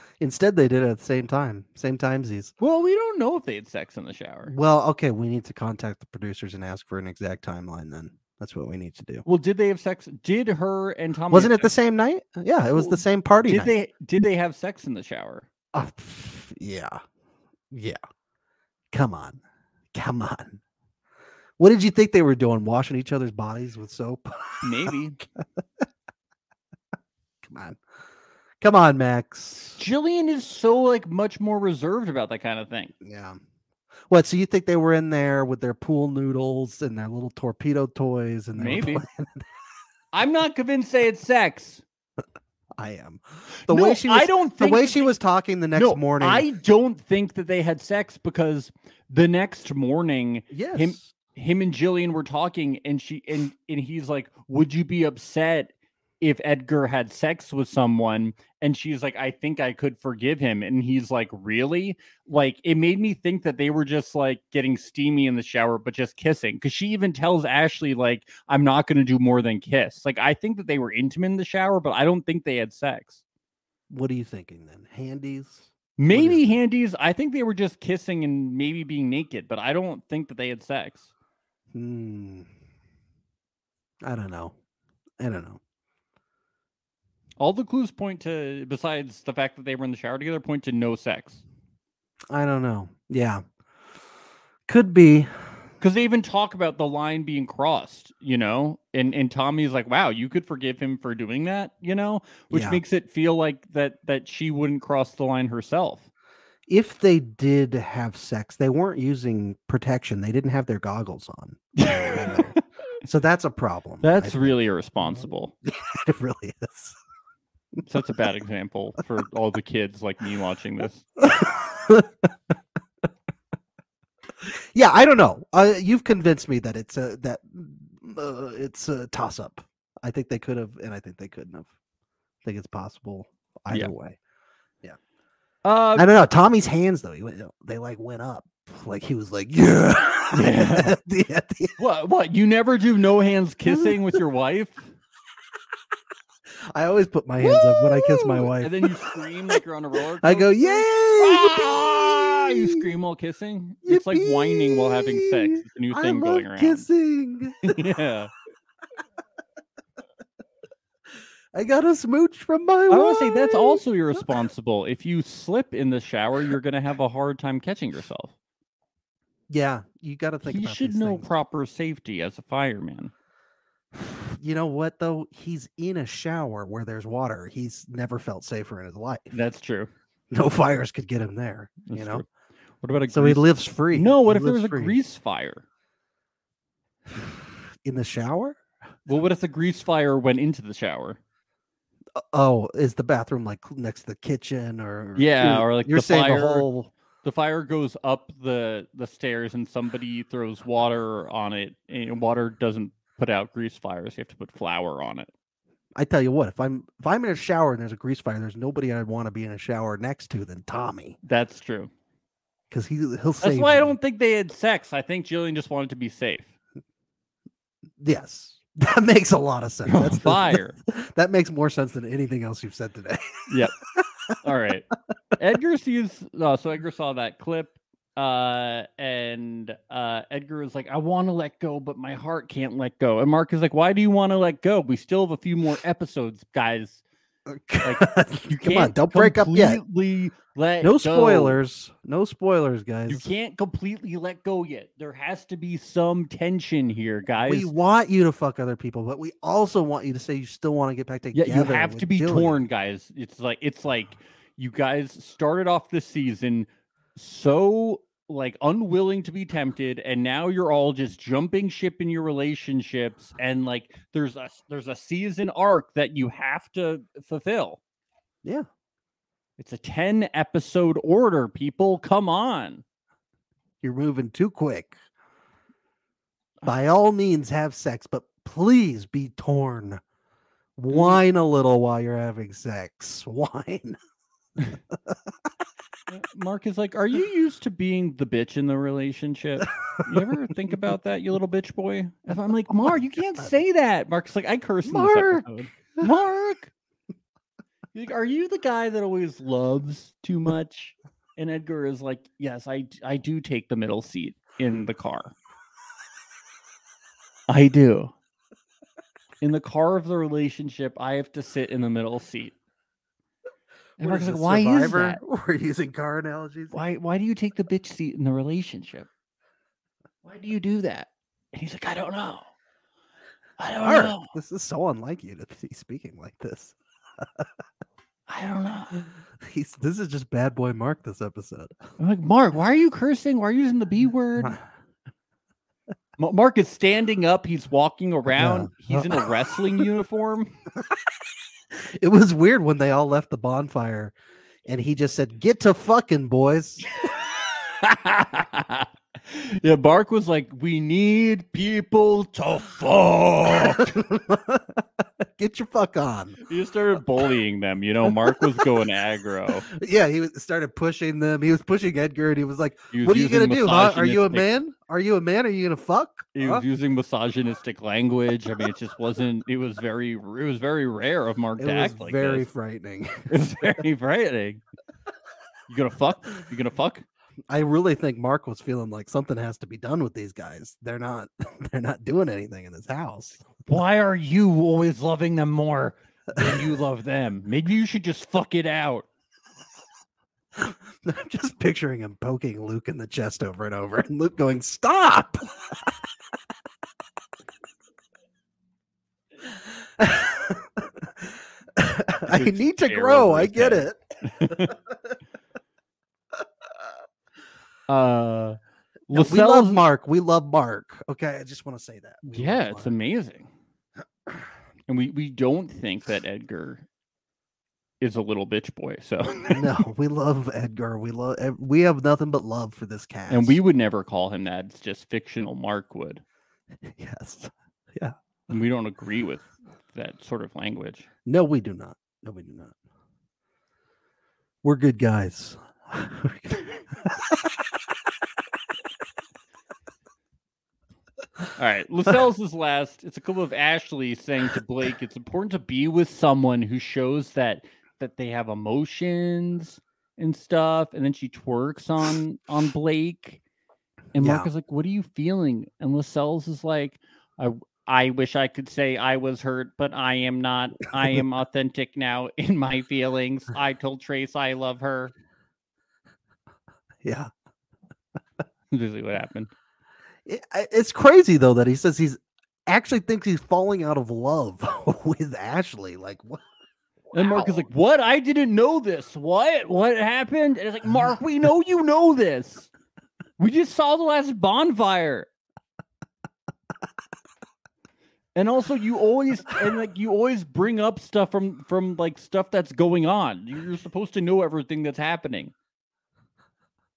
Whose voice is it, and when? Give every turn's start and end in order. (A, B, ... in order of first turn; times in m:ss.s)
0:00.2-0:02.5 A
0:02.6-0:04.6 B
0:04.5-0:09.2 A
0:09.3-0:11.7 B
0:11.3-0:13.7 A
0:12.8-0:15.5 B
0:15.7-0:17.0 A
0:17.7-0:18.0 A
0:18.9-0:19.4 A
0:19.9-0:20.6 A
0:21.6-0:25.4 A
0:24.6-0:25.2 B
0:27.4-0:27.8 A
0:28.6-0:29.8 A
0:29.8-0:32.9 B
0:33.0-0:33.4 A
0:34.1-0:39.4 A
0:38.6-0:39.0 B
0:40.1-0:41.8 B
0:42.8-0:46.5 A
0:43.7-0:45.1 B
0:45.8-1:13.2 B
0:50.5-0:51.1 A
1:13.9-1:16.4 A
1:16.0-1:21.1 B
1:21.7-1:22.5 A
1:24.0-1:24.6 A
1:25.2-1:25.6 A
1:27.4-1:31.4 B
1:32.3-1:33.4 A
1:34.7-1:35.3 A
1:35.8-1:46.1 B
1:42.5-1:42.8 A
1:46.7-1:54.6 A
1:51.8-1:52.6 B
1:54.0-1:55.6 B
1:55.1-1:57.0 A
1:57.8-2:01.0 B
2:01.2-2:02.3 A
2:04.4-2:11.7 A
2:12.4-2:14.2 A
2:15.6-2:16.1 B
2:16.0-2:21.8 A
2:20.3-2:21.0 B
2:21.8-2:24.9 B
2:23.7-2:24.2 A
2:26.7-2:28.9 A
2:27.4-2:36.9 B
2:30.2-2:32.8 A
2:33.8-2:37.8 A
2:37.6-2:38.3 B
2:41.5-2:44.2 A
2:42.9-2:48.3 B
2:49.5-2:51.3 A
2:50.4-2:53.1 B
2:54.0-2:59.3 A
2:59.3-2:59.9 B
3:00.3-3:02.2 A
3:01.9-3:02.2 B
3:02.8-3:05.6 B
3:03.1-3:05.0 A
3:07.1-3:08.6 A
3:09.1-3:11.2 B
3:12.2-3:16.9 A
3:15.2-3:16.7 B
3:17.2-3:25.3 B
3:26.0-3:31.2 A
3:31.2-3:31.9 B
3:32.7-3:34.0 A
3:33.4-3:36.5 B
3:38.0-3:44.3 A
3:39.9-3:40.8 B
3:43.5-3:43.8 B
3:44.4-3:57.0 B
3:57.5-3:59.8 A
3:57.8-4:01.6 B
4:00.8-4:03.3 A
4:03.1-4:07.7 B
4:07.4-4:12.6 A
4:11.3-4:27.8 B
4:29.6-4:32.8 B
4:33.8-4:35.0 A
4:36.6-4:40.0 A
4:40.8-4:44.0 A
4:40.9-4:41.2 B
4:44.9-4:45.2 A
4:46.1-4:56.7 B
4:54.8-4:56.1 A
4:57.9-5:05.4 B
5:07.5-5:08.1 B
5:09.4-5:12.6 B
5:14.0-5:15.2 B
5:14.0-5:16.8 A
5:16.7-5:19.1 B
5:20.2-5:22.5 B
5:23.6-5:24.3 B
5:23.8-5:27.5 A
5:28.3-5:28.9 B
5:29.4-5:31.8 A
5:32.0-5:34.6 B
5:36.2-5:40.5 B
5:38.3-5:39.3 A
5:41.8-5:44.1 A
5:44.7-5:46.9 A
5:47.8-5:53.9 B
5:53.5-5:56.4 A
5:56.5-5:59.7 B
5:58.1-5:58.6 A
5:59.7-6:06.6 A
6:02.9-6:04.5 B
6:06.4-6:12.5 B
6:11.6-6:13.8 A
6:13.3-6:14.6 B
6:15.7-6:17.0 B
6:17.5-6:23.5 A
6:23.7-6:29.1 B
6:26.4-6:26.6 A
6:30.6-6:35.5 A
6:40.0-6:44.6 A
6:42.3-6:44.8 B
6:47.9-6:48.6 B
6:49.1-6:49.9 B
6:49.1-6:52.9 A
6:52.2-6:53.5 B
6:54.9-6:56.8 B
6:58.0-6:59.7 B
6:59.5-7:03.6 A
7:03.3-7:06.2 B
7:06.9-7:08.2 A
7:08.5-7:11.1 B
7:11.3-7:12.8 A
7:14.6-7:17.5 A
7:21.6-7:33.4 B
7:34.2-7:45.1 B
7:34.2-7:34.5 A
7:47.0-7:47.3 A
7:48.7-7:49.5 B
7:50.3-7:56.4 A
7:57.1-7:57.7 A
7:57.1-8:02.7 B
8:03.4-8:05.3 B
8:08.4-8:15.5 B